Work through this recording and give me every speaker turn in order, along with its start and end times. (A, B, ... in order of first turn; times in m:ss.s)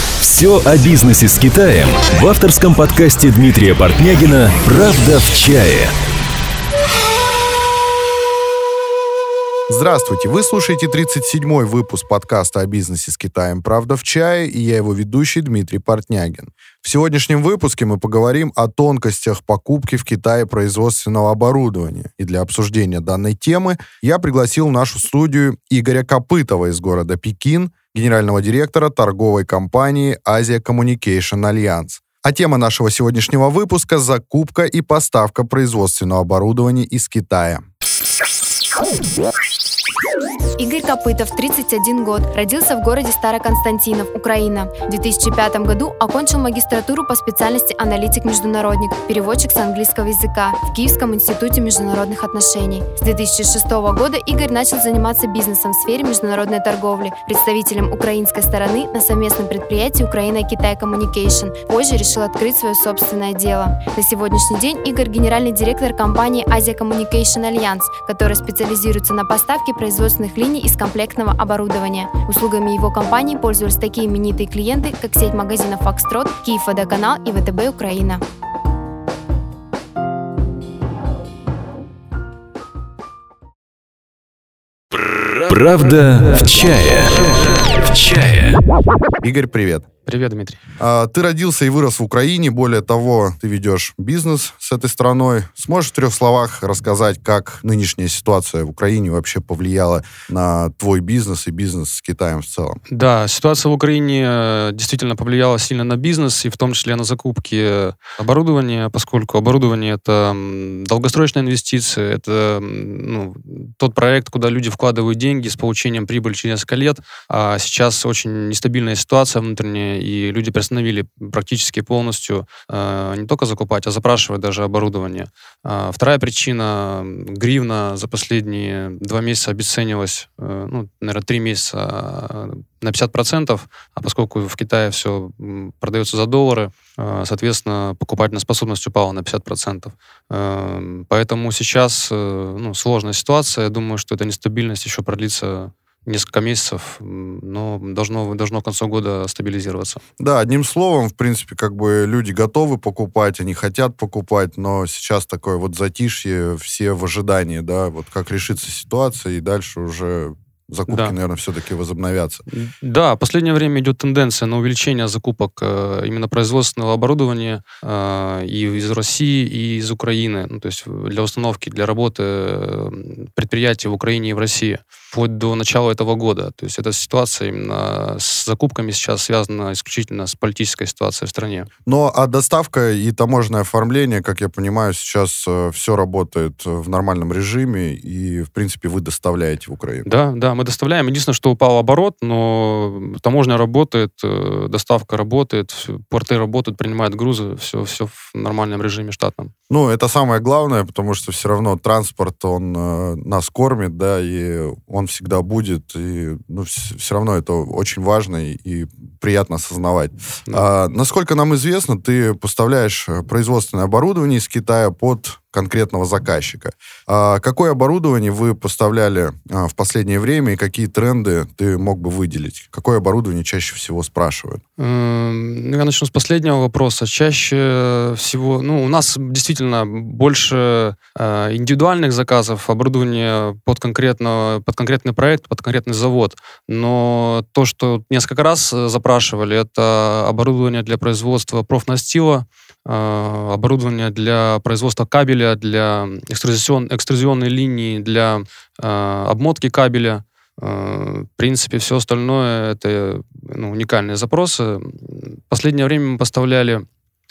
0:00.2-0:05.9 A
0:09.7-0:37.6 B
0:40.6-1:18.2 C
1:25.2-1:28.6 A
1:29.2-1:29.8 B
1:30.0-1:30.6 D
1:30.8-1:42.8 B
1:42.9-2:30.0 D
2:30.2-2:42.4 B
2:40.9-2:41.1 D
2:42.5-3:01.7 D
3:01.8-3:10.1 B
3:10.0-3:19.5 D
3:19.7-3:44.6 B
3:44.8-4:16.8 D